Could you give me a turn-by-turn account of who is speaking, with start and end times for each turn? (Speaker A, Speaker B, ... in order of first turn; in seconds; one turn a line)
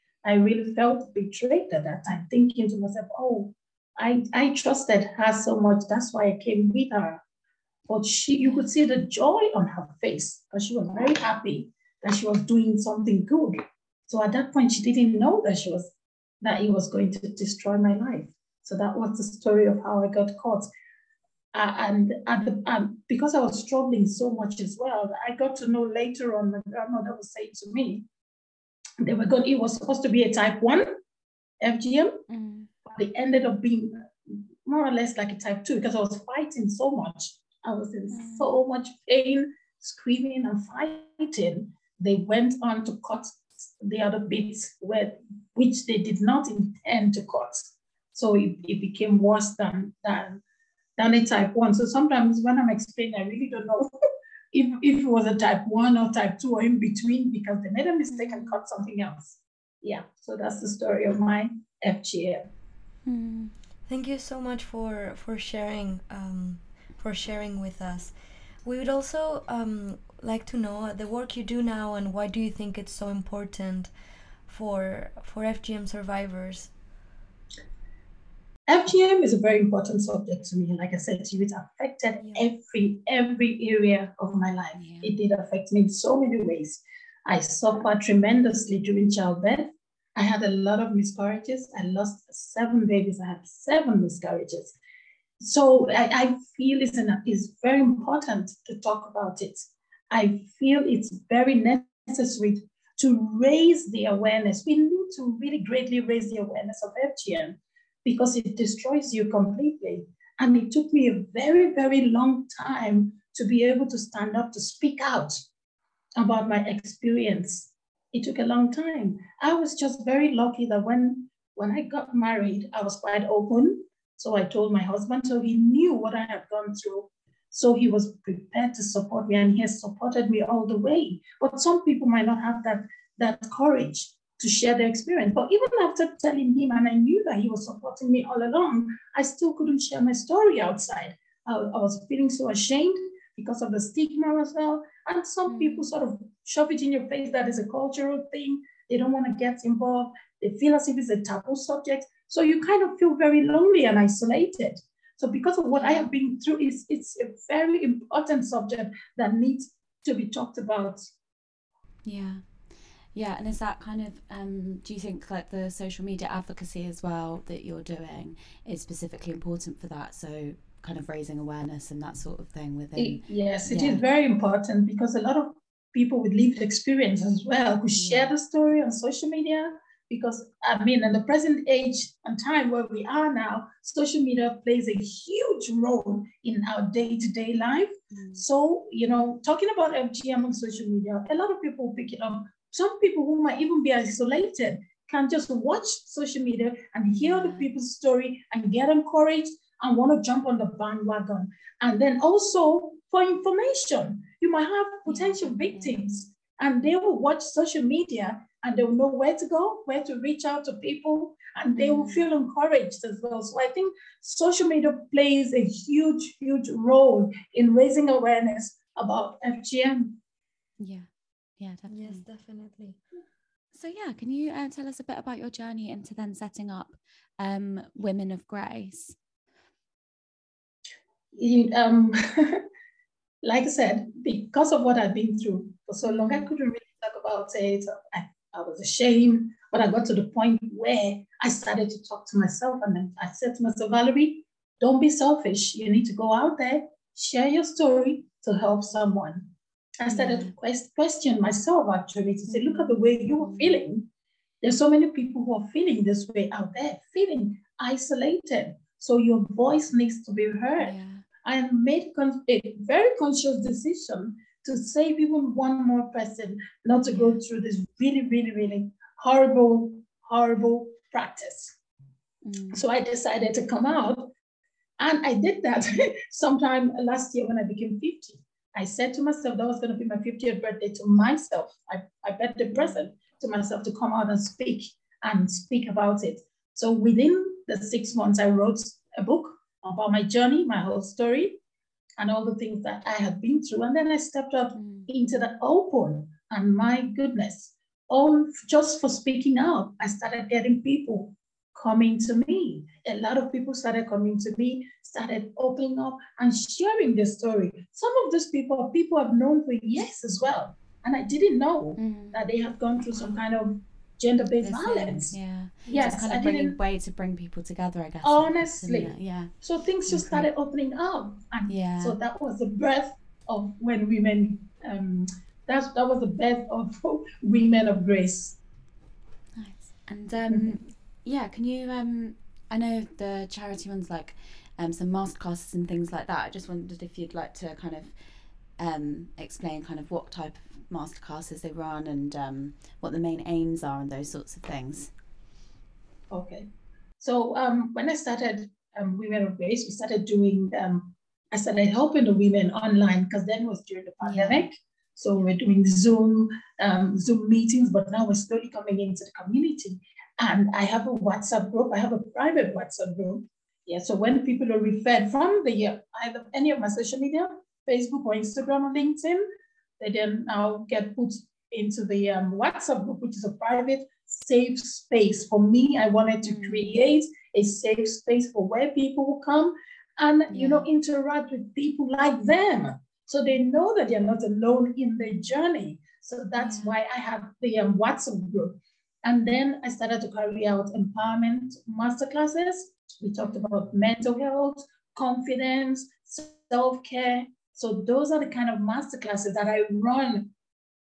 Speaker A: 0.2-7.2
Speaker A: 7.9-20.7
Speaker B: 8.4-8.7
Speaker A: 21.5-28.1
Speaker A: 29.0-31.0
Speaker A: 31.6-32.2
Speaker B: 32.3-32.7
Speaker A: 32.9-50.4
Speaker B: 38.1-38.5
Speaker A: 51.0-53.9
Speaker A: 54.5-62.5
Speaker B: 58.1-58.6
Speaker B: 63.1-63.5
Speaker C: 63.9-73.9
Speaker C: 74.5-76.7
Speaker A: 78.7-94.8
Speaker B: 84.8-85.1
Speaker A: 95.4-115.4
Speaker A: 116.2-161.1
Speaker B: 145.5-145.9
Speaker B: 155.7-156.1
Speaker B: 162.1-162.5
Speaker B: 163.1-174.0
Speaker A: 173.0-220.2
Speaker B: 177.9-178.3
Speaker B: 188.1-188.4
Speaker B: 197.1-197.7
Speaker B: 205.1-206.1
Speaker B: 211.8-212.3
Speaker B: 220.8-222.2
Speaker C: 221.9-223.0
Speaker B: 223.7-229.2
Speaker A: 231.3-232.6
Speaker A: 233.4-254.1
Speaker B: 236.0-236.5
Speaker B: 250.1-250.6
Speaker B: 252.5-253.8
Speaker A: 254.6-271.8
Speaker B: 260.8-261.2
Speaker B: 267.0-267.4
Speaker B: 272.4-272.8
Speaker A: 272.7-274.3
Speaker A: 275.0-291.6
Speaker B: 282.7-283.0
Speaker A: 292.2-316.8
Speaker B: 294.8-295.1
Speaker B: 312.0-312.4
Speaker B: 314.6-320.5
Speaker A: 318.2-328.6
Speaker B: 321.7-322.2
Speaker B: 329.5-338.1
Speaker B: 338.8-345.1
Speaker A: 346.3-369.4
Speaker B: 354.2-354.7
Speaker A: 370.0-400.5
Speaker B: 376.4-377.0
Speaker B: 380.5-380.9
Speaker B: 386.6-387.0
Speaker B: 393.4-393.9